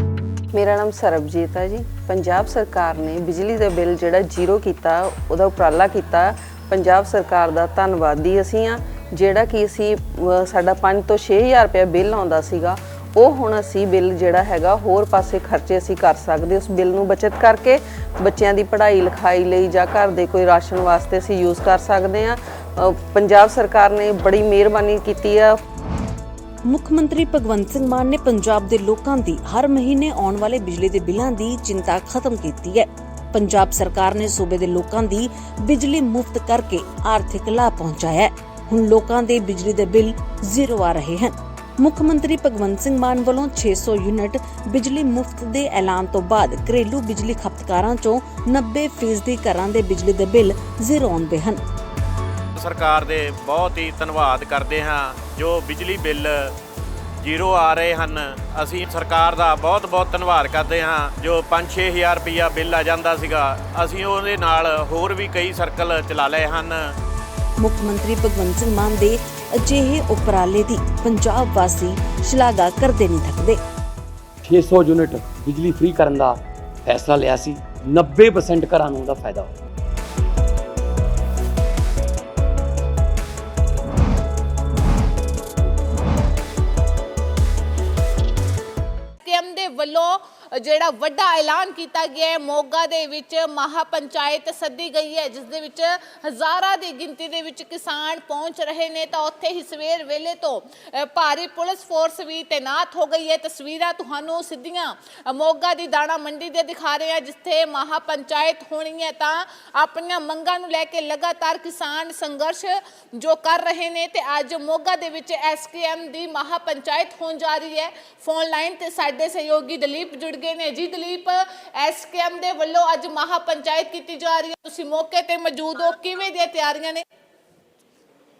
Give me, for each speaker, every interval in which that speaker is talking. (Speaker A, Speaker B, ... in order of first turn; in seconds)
Speaker A: 0.5-25.6
Speaker B: 26.6-51.6, 67.6-73.6
Speaker C: 52.5-56.5, 57.2-67.0
Speaker D: 74.4-79.5
Speaker E: 89.2-127.0